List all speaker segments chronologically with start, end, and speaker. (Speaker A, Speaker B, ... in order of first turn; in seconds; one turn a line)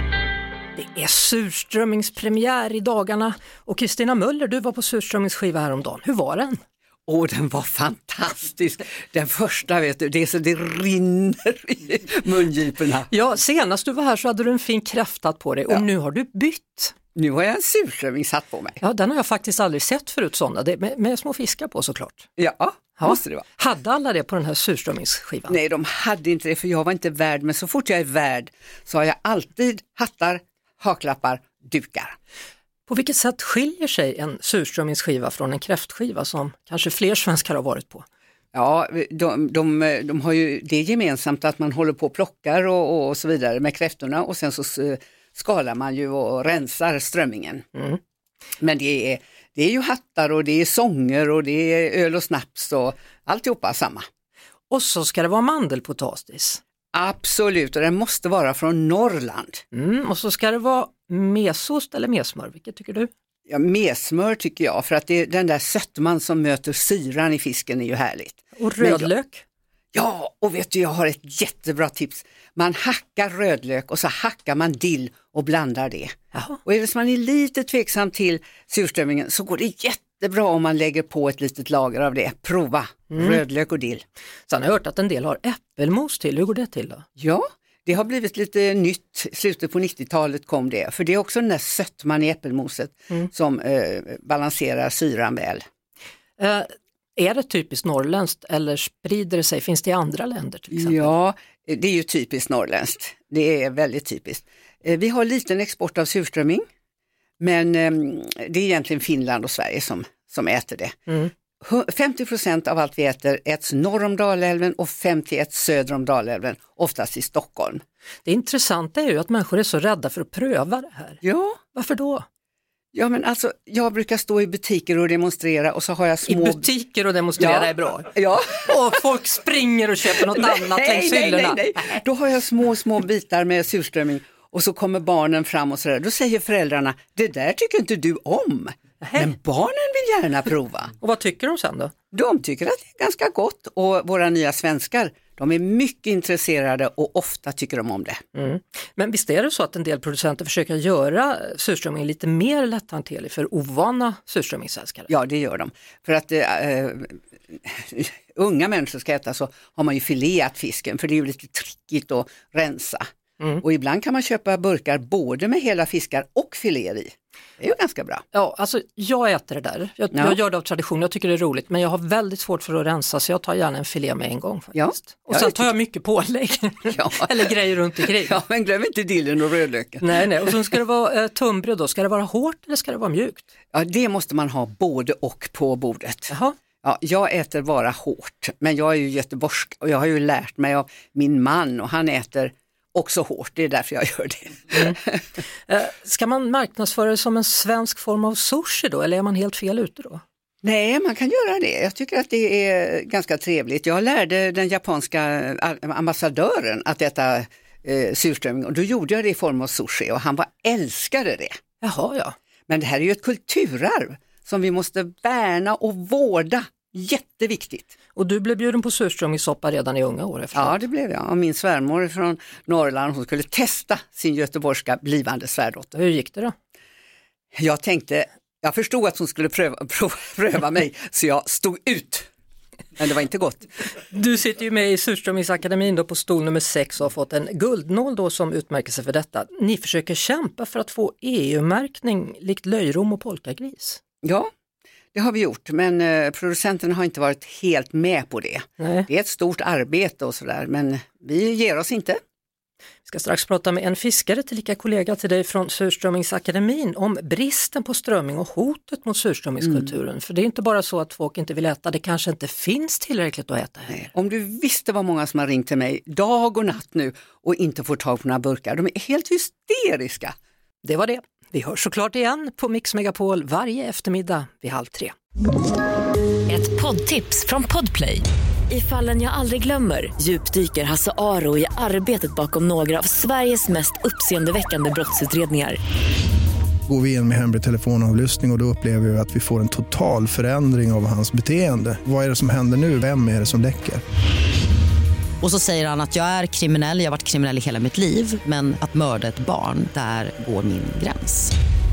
Speaker A: 0.8-6.6
Speaker B: 7.1-13.1
Speaker A: 13.1-16.9
Speaker B: 17.1-18.8
Speaker A: 18.8-22.3
Speaker B: 22.4-23.5
Speaker A: 23.0-25.6
Speaker B: 25.5-32.1
Speaker A: 32.9-38.0
Speaker B: 38.5-47.6
Speaker B: 48.6-54.0
Speaker A: 54.7-56.6
Speaker B: 56.9-59.6
Speaker A: 59.7-63.1
Speaker B: 63.5-69.1
Speaker A: 68.6-69.4
Speaker B: 69.9-84.0
Speaker A: 76.3-76.6
Speaker A: 83.1-83.4
Speaker A: 84.5-87.0
Speaker B: 87.2-95.6
Speaker A: 96.4-101.1
Speaker B: 100.7-106.6
Speaker B: 107.4-111.0
Speaker B: 111.6-117.8
Speaker A: 118.2-121.2
Speaker B: 121.2-121.6
Speaker A: 121.7-122.2
Speaker B: 122.9-126.7
Speaker A: 126.3-132.0
Speaker B: 127.4-128.7
Speaker B: 130.2-140.9
Speaker A: 139.0-139.3
Speaker A: 141.0-141.9
Speaker B: 142.1-148.2
Speaker A: 148.3-155.1
Speaker B: 155.1-163.1
Speaker B: 163.6-168.2
Speaker A: 168.3-178.4
Speaker B: 170.1-170.4
Speaker B: 174.7-175.7
Speaker B: 176.9-180.8
Speaker A: 180.0-183.5
Speaker B: 183.7-186.3
Speaker A: 186.3-186.6
Speaker B: 186.8-195.2
Speaker A: 195.7-200.2
Speaker B: 200.6-211.5
Speaker A: 211.8-212.3
Speaker B: 212.7-217.9
Speaker A: 218.2-220.8
Speaker B: 220.5-225.9
Speaker A: 225.9-226.5
Speaker B: 227.6-232.3
Speaker B: 233.0-233.7
Speaker A: 234.1-244.0
Speaker B: 244.2-244.5
Speaker B: 245.1-252.2
Speaker A: 248.8-249.1
Speaker A: 253.1-264.1
Speaker B: 263.9-270.3
Speaker A: 270.8-275.1
Speaker C: 276.5-285.8
Speaker D: 286.9-294.0
Speaker E: 295.4-301.5